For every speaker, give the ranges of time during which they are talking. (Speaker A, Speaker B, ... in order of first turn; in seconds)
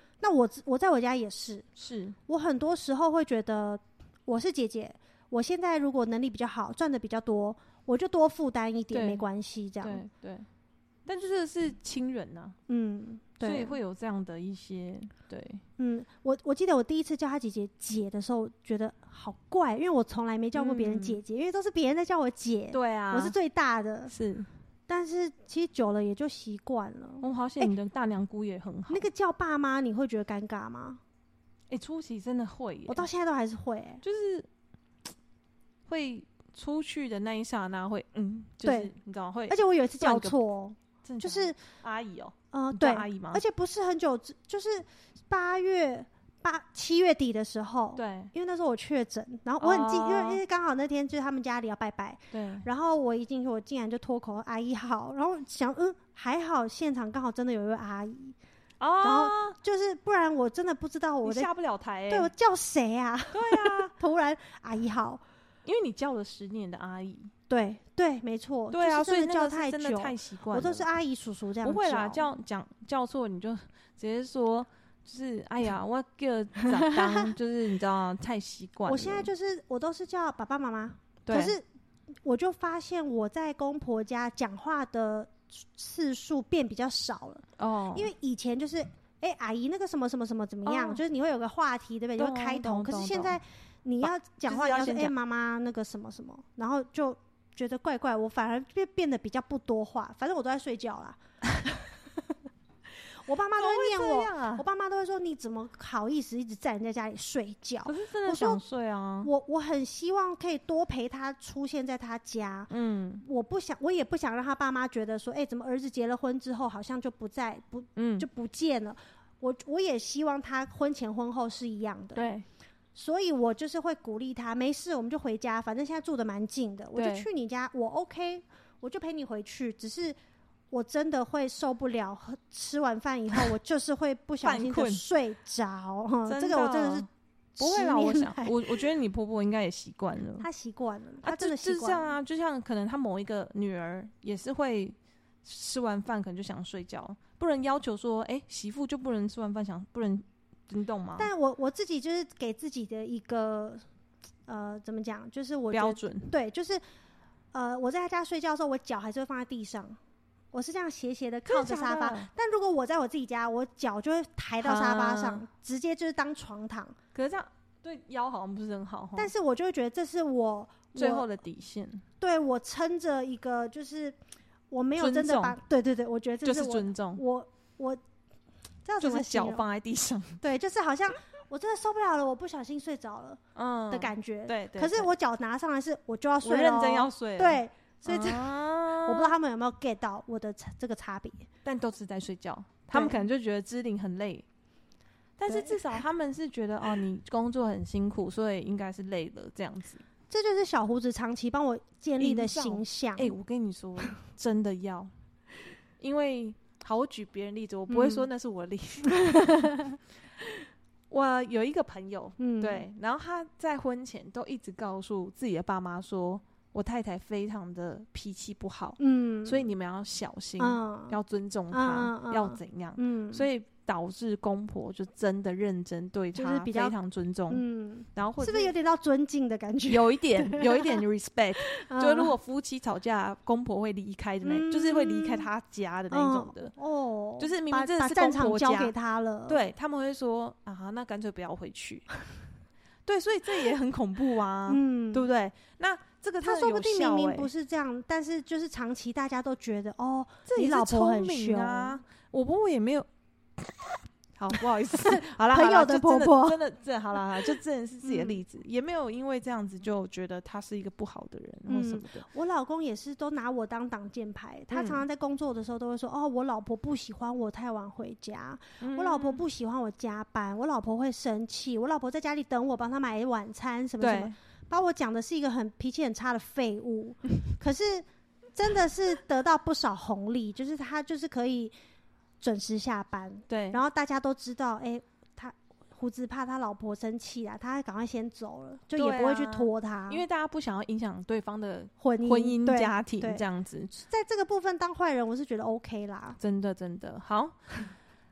Speaker A: 0.2-1.7, 2.3-10.0, 12.7-13.8, 15.8-24.1, 24.9-27.7, 28.9-31.0, 32.9-34.0, 38.6-38.9, 39.5-41.6, 42.5-58.4, 59.0-61.5, 62.1-65.2, 67.5-72.3, 76.6-77.3, 78.9-81.7, 82.2-101.2, 103.2-108.6, 109.2-112.7, 113.2-122.3, 123.0-130.2, 130.7-138.9, 140.4-142.2, 151.2-153.8, 154.5-156.8, 157.5-160.0, 160.5-167.0, 169.2-171.3, 172.2-174.2, 174.7-178.0, 178.8-179.7, 180.4-191.5, 192.9-193.2, 195.5-195.9, 200.3-203.3, 207.9-208.3, 212.4-212.8, 219.0-219.7, 220.6-221.2, 221.7-223.5, 226.3-227.0, 227.5-231.0, 231.6-232.3, 234.4-235.5, 236.1-239.6, 244.7-245.3, 246.4-252.0, 254.5-256.6, 257.4-258.4, 261.7-281.7, 282.4-290.2, 292.0-293.4, 294.0-296.4
Speaker B: 1.8-2.2, 8.9-9.2, 9.8-10.5, 11.1-12.6, 13.4-15.6, 20.6-21.2, 22.7-23.4, 24.1-24.5, 27.2-29.1, 31.7-33.1, 34.0-34.5, 35.9-40.4, 41.0-43.4, 48.0-48.3, 49.6-50.4, 52.3-52.7, 58.8-59.6, 61.2-62.3, 63.3-63.9, 65.7-67.3, 68.7-70.9, 71.6-79.3, 81.2-81.6, 87.6-88.1, 90.7-91.0, 92.2-93.4, 94.0-95.1, 103.6-104.6, 107.8-109.3, 112.7-113.2, 118.0-118.3, 122.2-122.5, 127.0-127.3, 134.4-135.0, 136.3-137.1, 137.6-140.5, 141.2-151.3, 155.7-156.3, 161.5-162.3, 164.6-165.5, 167.1-169.3, 170.9-172.1, 175.0-175.6, 176.4-177.2, 179.0-180.4, 183.6-185.1, 186.4-189.3, 191.6-194.5, 195.4-200.0, 202.2-205.1, 206.0-210.0, 211.1-227.6, 228.2-228.8, 229.9-236.7, 237.4-238.9, 239.5-242.1, 243.1-247.5, 250.5-262.3, 264.7-265.0, 268.8-269.4, 274.0-274.3, 283.5-283.8, 288.9-293.9, 296.4-297.6